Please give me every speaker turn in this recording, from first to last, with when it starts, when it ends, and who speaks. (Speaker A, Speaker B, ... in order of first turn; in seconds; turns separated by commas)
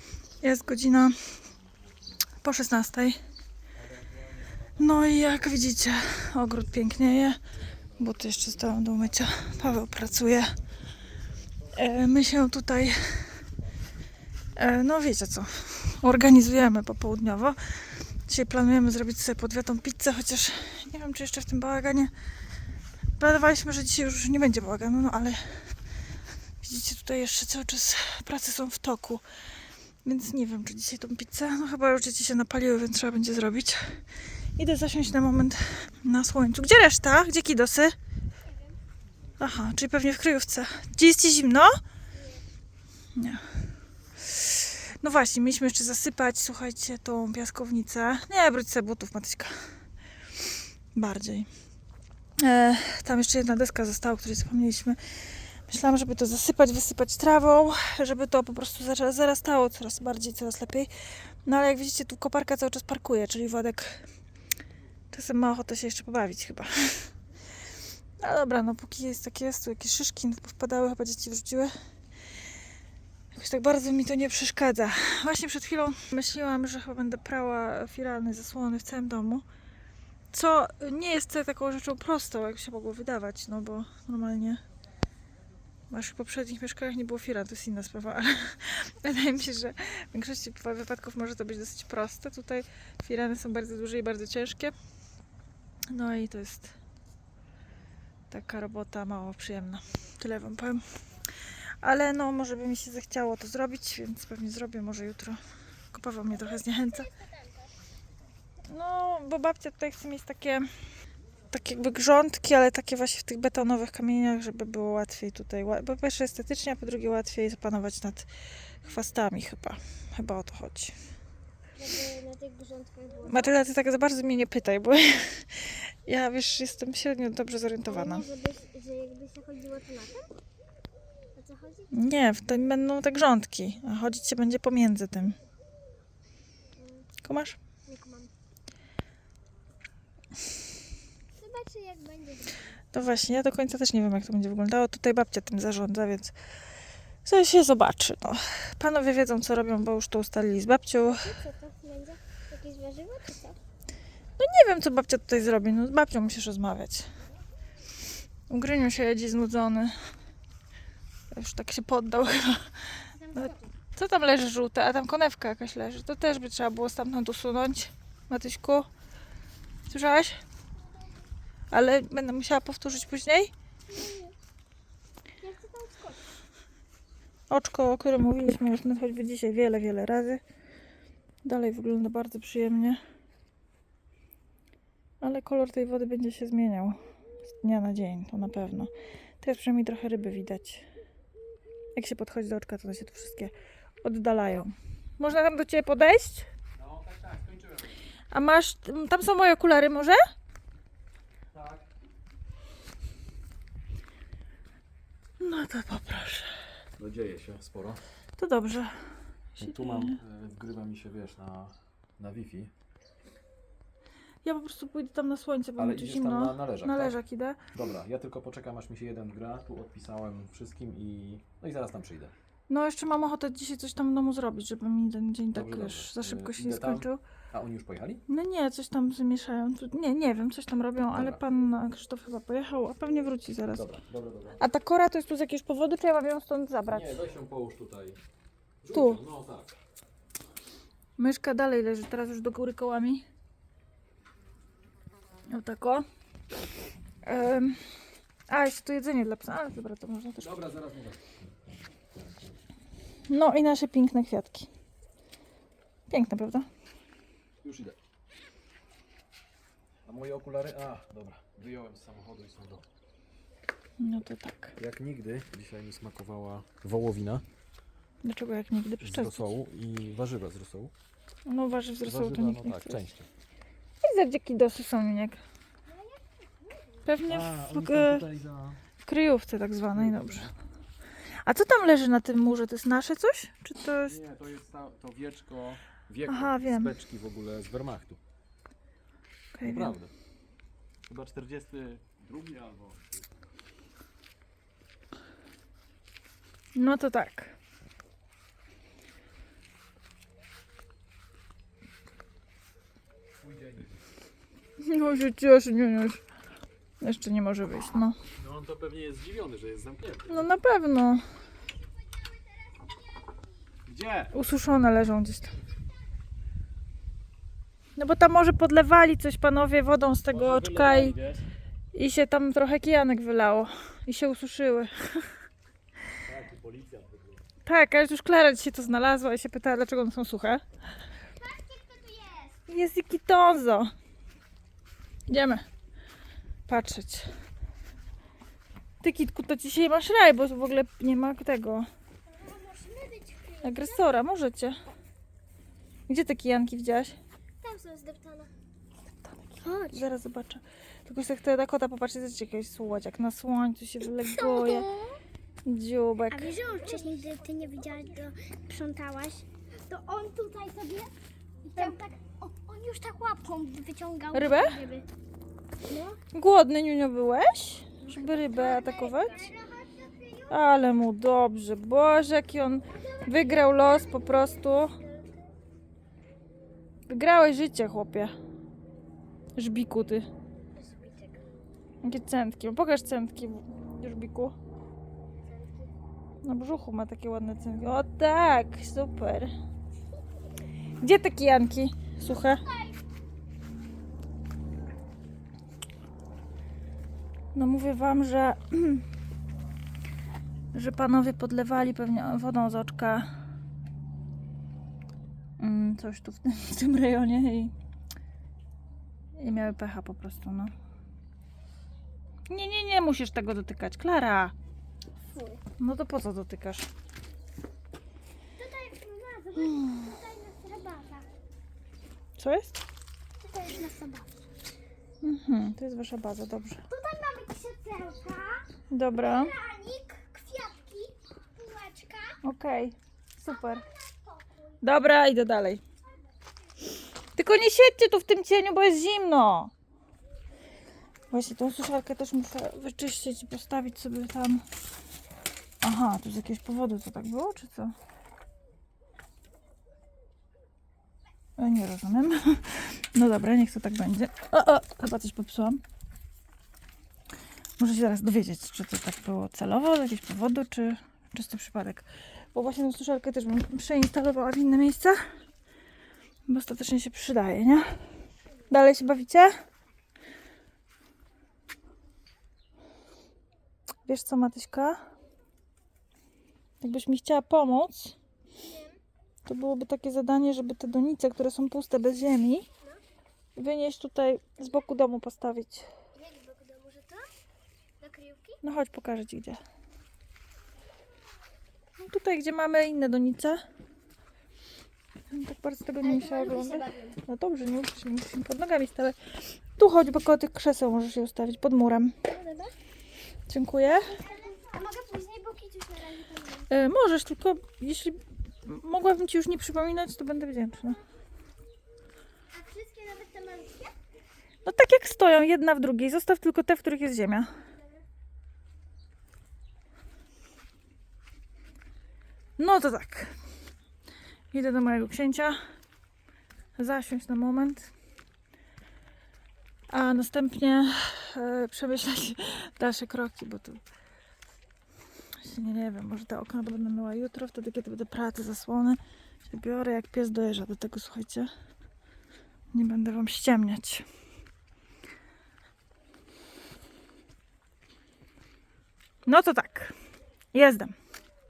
Speaker A: 0.4-1.1, Speaker A: 2.4-3.2, Speaker A: 4.8-7.4, Speaker A: 8.0-10.6, Speaker A: 11.7-13.4, Speaker A: 14.5-22.1, Speaker A: 23.2-25.8, Speaker A: 26.6-29.2, Speaker A: 30.0-34.0, Speaker A: 34.5-37.9, Speaker A: 39.4-41.7, Speaker B: 42.1-42.4, Speaker A: 43.1-43.5, Speaker A: 44.2-49.6, Speaker A: 50.9-51.5, Speaker A: 52.4-60.9, Speaker A: 61.4-64.0, Speaker A: 65.1-67.1, Speaker A: 68.2-71.7, Speaker A: 73.3-79.4, Speaker A: 80.3-84.6, Speaker A: 85.9-94.7, Speaker A: 95.9-96.7, Speaker A: 98.3-100.9, Speaker A: 101.5-105.4, Speaker A: 105.9-107.1, Speaker B: 106.5-107.7, Speaker A: 108.7-110.7, Speaker A: 111.5-121.0, Speaker B: 121.8-123.5, Speaker A: 123.3-128.2, Speaker B: 127.8-130.3, Speaker B: 131.3-131.9, Speaker A: 131.9-135.4, Speaker B: 136.8-137.1, Speaker A: 137.2-137.6, Speaker B: 137.8-138.3, Speaker B: 141.4-142.7, Speaker A: 142.9-146.3, Speaker A: 147.2-151.3, Speaker B: 151.1-153.6, Speaker A: 154.4-157.1, Speaker A: 158.5-159.9, Speaker A: 161.3-168.9, Speaker B: 163.2-163.7, Speaker A: 169.9-170.4, Speaker A: 171.7-173.5, Speaker B: 173.9-174.3, Speaker B: 175.4-176.2, Speaker A: 177.5-180.4, Speaker A: 181.4-183.0, Speaker A: 185.2-190.9, Speaker A: 191.9-193.5, Speaker A: 194.0-196.5, Speaker C: 196.8-197.9, Speaker A: 198.3-200.2, Speaker C: 201.5-201.9, Speaker A: 205.4-206.5, Speaker C: 207.0-208.0, Speaker A: 208.4-210.2, Speaker C: 209.6-212.7, Speaker A: 214.4-217.7, Speaker C: 215.8-217.2, Speaker C: 217.7-222.3, Speaker A: 222.7-227.2, Speaker C: 225.5-228.2, Speaker A: 228.3-233.8, Speaker C: 231.1-231.4, Speaker C: 233.7-234.6, Speaker A: 234.6-237.2, Speaker C: 236.9-238.2, Speaker C: 238.8-239.8, Speaker A: 238.9-239.2, Speaker A: 241.2-243.2, Speaker A: 245.5-246.0, Speaker A: 247.2-247.9, Speaker A: 248.5-250.6, Speaker C: 250.4-251.3, Speaker A: 253.3-254.7, Speaker A: 256.1-256.7, Speaker C: 257.6-258.0, Speaker C: 260.0-262.9, Speaker A: 264.0-264.8, Speaker C: 264.8-267.4, Speaker A: 268.2-269.4, Speaker C: 269.0-270.9, Speaker A: 271.4-273.1, Speaker C: 272.0-273.3, Speaker A: 274.0-275.4, Speaker B: 275.9-277.0, Speaker A: 277.0-278.2, Speaker C: 277.3-278.8, Speaker A: 279.0-280.5, Speaker C: 279.9-280.5, Speaker A: 281.4-284.2, Speaker C: 284.0-288.2, Speaker A: 286.3-286.9, Speaker A: 289.5-290.0, Speaker C: 289.6-290.1, Speaker C: 291.1-293.2, Speaker A: 296.7-297.5, Speaker C: 303.4-303.9, Speaker A: 304.8-306.2, Speaker A: 307.0-308.1, Speaker C: 308.4-310.5, Speaker A: 310.3-311.2, Speaker B: 312.0-312.9, Speaker C: 313.9-314.3, Speaker A: 314.3-315.6, Speaker A: 317.9-321.2, Speaker C: 320.3-321.4, Speaker A: 321.9-325.3, Speaker C: 326.2-327.4, Speaker A: 327.6-330.6, Speaker B: 331.4-332.6, Speaker A: 332.7-333.9, Speaker A: 335.3-335.6, Speaker A: 336.7-337.3, Speaker A: 339.0-341.9, Speaker B: 342.3-344.0, Speaker A: 343.6-344.8, Speaker A: 346.1-347.2, Speaker B: 347.6-348.5, Speaker A: 349.2-354.9, Speaker B: 349.6-350.1, Speaker B: 354.1-355.2, Speaker A: 355.6-356.5, Speaker B: 356.3-361.1, Speaker B: 361.7-365.1, Speaker A: 364.3-364.8, Speaker B: 365.8-366.2, Speaker A: 366.3-369.4, Speaker B: 368.0-370.6, Speaker A: 370.5-374.9, Speaker B: 372.9-375.5, Speaker A: 377.1-378.3, Speaker A: 379.6-380.3, Speaker B: 380.7-381.4, Speaker A: 382.0-384.5, Speaker B: 385.4-385.9, Speaker A: 386.4-389.5, Speaker A: 391.0-392.6, Speaker A: 397.5-399.0, Speaker A: 400.7-403.3, Speaker A: 405.6-407.7, Speaker A: 409.4-410.7, Speaker A: 412.5-414.5, Speaker B: 415.3-415.6, Speaker A: 415.8-416.9, Speaker B: 418.6-421.2, Speaker A: 419.6-420.0, Speaker A: 422.4-422.8, Speaker B: 423.4-424.3, Speaker A: 425.2-426.8, Speaker B: 426.9-428.7, Speaker A: 428.9-429.5, Speaker B: 429.2-432.4, Speaker A: 432.4-433.8, Speaker B: 433.5-434.7, Speaker A: 434.8-435.8, Speaker A: 437.4-439.7, Speaker A: 441.3-444.6, Speaker A: 445.8-447.9, Speaker A: 451.6-455.8, Speaker A: 457.8-465.2, Speaker A: 466.5-468.1, Speaker A: 468.7-469.5, Speaker A: 474.0-475.0, Speaker A: 476.8-478.1, Speaker B: 478.6-479.0, Speaker A: 479.4-482.7, Speaker A: 483.6-485.9, Speaker B: 486.1-487.3, Speaker B: 488.0-488.6, Speaker A: 488.6-489.6, Speaker A: 492.0-493.6, Speaker A: 495.3-502.1, Speaker B: 496.0-497.2, Speaker B: 502.2-502.7, Speaker A: 503.5-504.1, Speaker B: 504.0-506.7, Speaker A: 506.7-511.0, Speaker B: 512.5-513.9, Speaker A: 514.6-517.5, Speaker A: 522.6-523.3, Speaker A: 524.5-525.6, Speaker A: 526.8-527.9, Speaker A: 529.9-533.8, Speaker A: 535.4-541.5, Speaker A: 542.7-544.0, Speaker A: 549.2-550.0, Speaker A: 550.5-550.9